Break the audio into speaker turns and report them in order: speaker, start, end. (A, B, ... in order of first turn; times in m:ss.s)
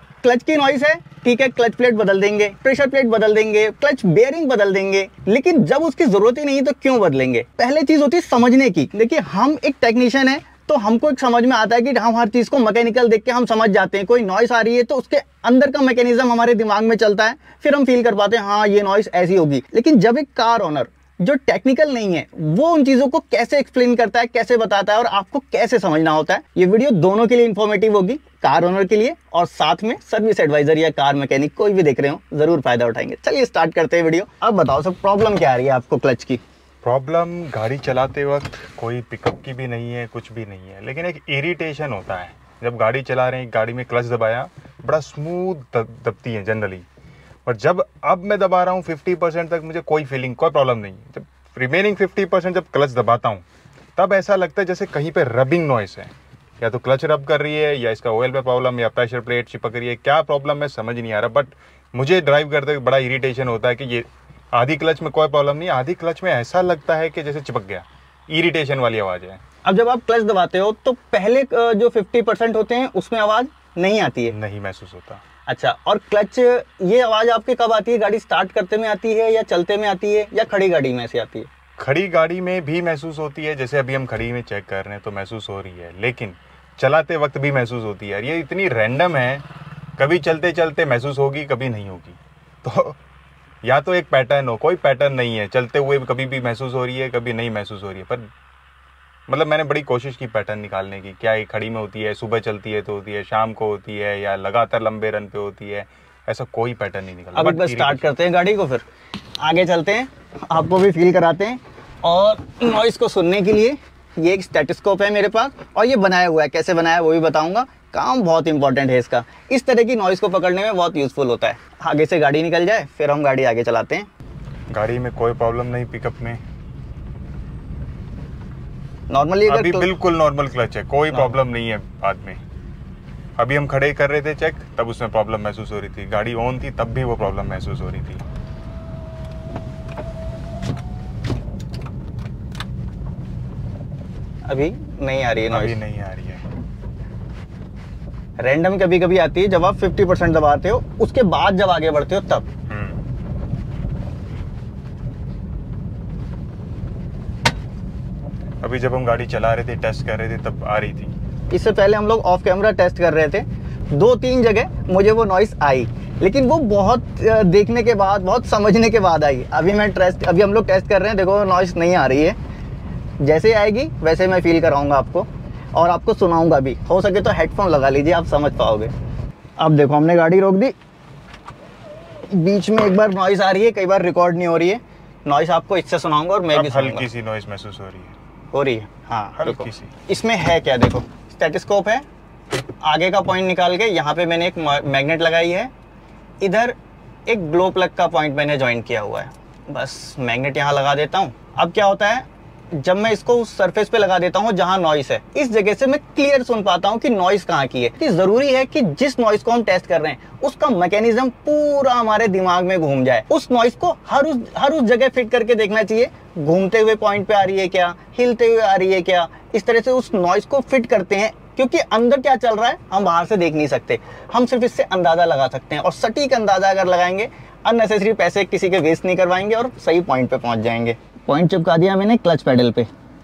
0:00.2-0:36.4 A
0:36.8-0:46.8 B
0:47.4-0:53.4 B
0:54.0-1:09.4 B
1:09.6-1:14.3 A
1:14.3-1:15.2 B
1:15.5-1:21.5 A
1:21.8-1:29.4 B
1:30.0-1:33.0 B
1:33.6-1:38.2 B
1:39.3-1:48.0 B
1:47.3-1:48.8 A
1:49.4-2:04.1 A
2:04.7-2:06.4 B
2:09.1-2:09.9 A
2:09.5-2:12.4 B
2:13.4-2:18.2 B
2:24.5-2:25.8 A
2:25.5-2:26.4 B
2:28.4-2:32.5 A
2:32.7-2:33.0 B
2:38.6-2:41.1 B
2:41.5-2:52.4 A
2:53.2-2:58.9 A
2:59.6-3:00.7 A
3:02.3-3:07.1 A
3:06.5-3:08.2 B
3:08.5-3:12.0 A
3:09.4-3:09.9 B
3:12.8-3:15.7 A
3:16.4-3:16.8 A
3:17.3-3:52.9 A